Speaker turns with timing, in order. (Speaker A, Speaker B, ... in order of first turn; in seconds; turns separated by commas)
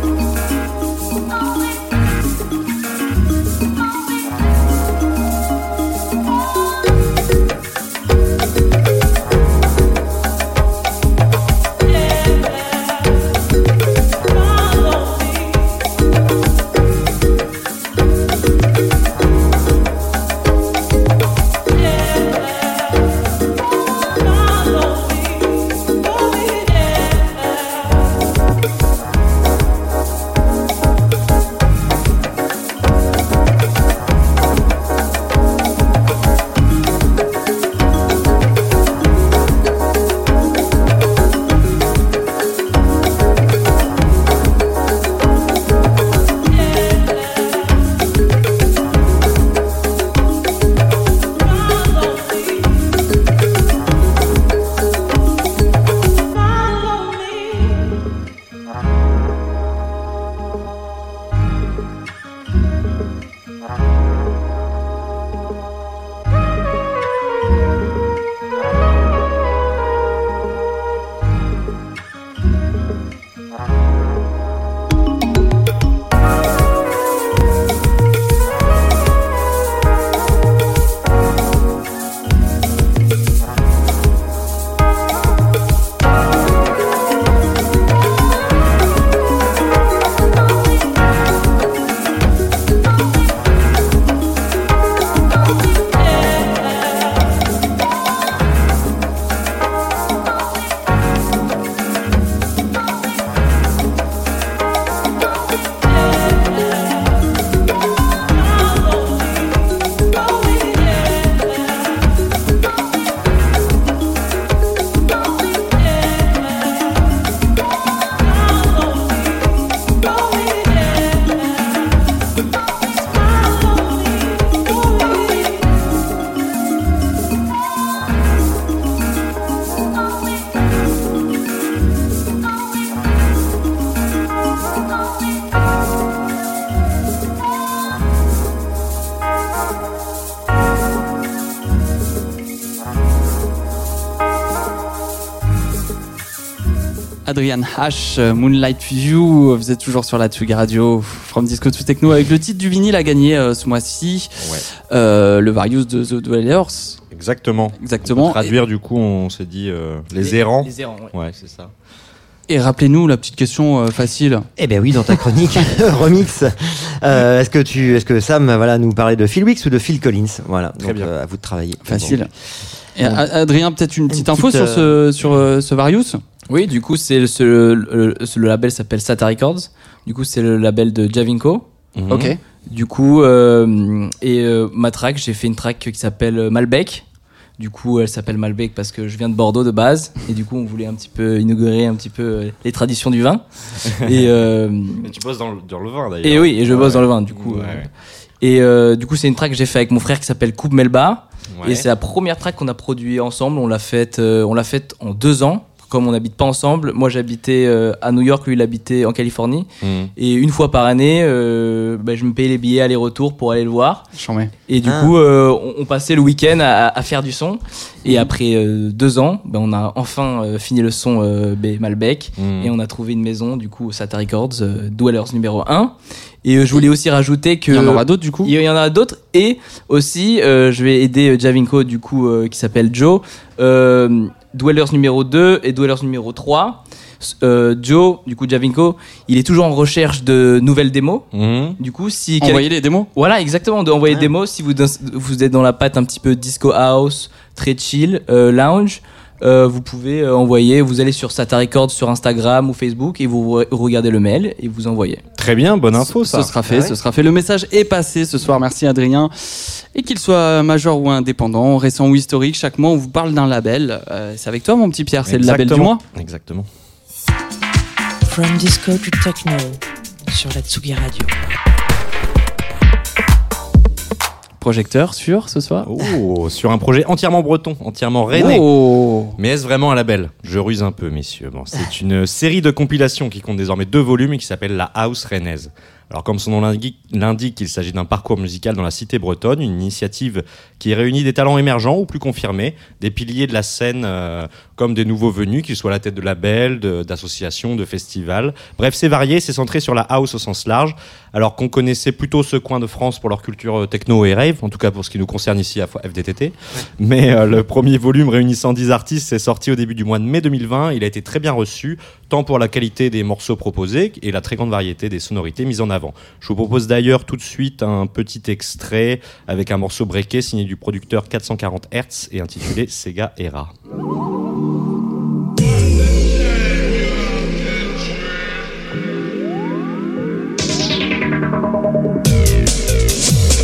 Speaker A: 147.2-154.3, Speaker B: 154.4-154.7, Speaker A: 154.9-157.0, Speaker B: 157.1-161.7, Speaker A: 157.8-158.5, Speaker C: 160.2-161.1, Speaker A: 162.5-164.5, Speaker D: 164.6-172.3, Speaker B: 170.8-171.1, Speaker A: 171.8-172.3, Speaker A: 172.9-176.2, Speaker D: 174.1-174.9, Speaker C: 176.5-181.7, Speaker B: 181.9-182.3, Speaker A: 182.1-182.4, Speaker C: 182.7-187.1, Speaker C: 187.6-193.4, Speaker C: 194.0-195.1, Speaker B: 194.1-194.3, Speaker B: 195.0-197.9, Speaker C: 196.2-197.9, Speaker C: 198.4-214.1, Speaker B: 201.5-201.9, Speaker B: 209.8-210.1, Speaker A: 214.1-214.5, Speaker C: 214.7-241.3, Speaker D: 214.8-215.2, Speaker B: 222.4-222.7, Speaker A: 227.7-228.5, Speaker B: 241.3-241.8, Speaker C: 241.8-255.2, Speaker A: 242.4-243.1, Speaker B: 255.4-256.5, Speaker A: 256.0-266.0, Speaker D: 256.7-256.9, Speaker B: 265.3-266.7, Speaker E: 268.3-271.4, Speaker A: 274.6-275.9, Speaker B: 275.9-278.7, Speaker A: 278.3-279.4, Speaker B: 279.4-323.7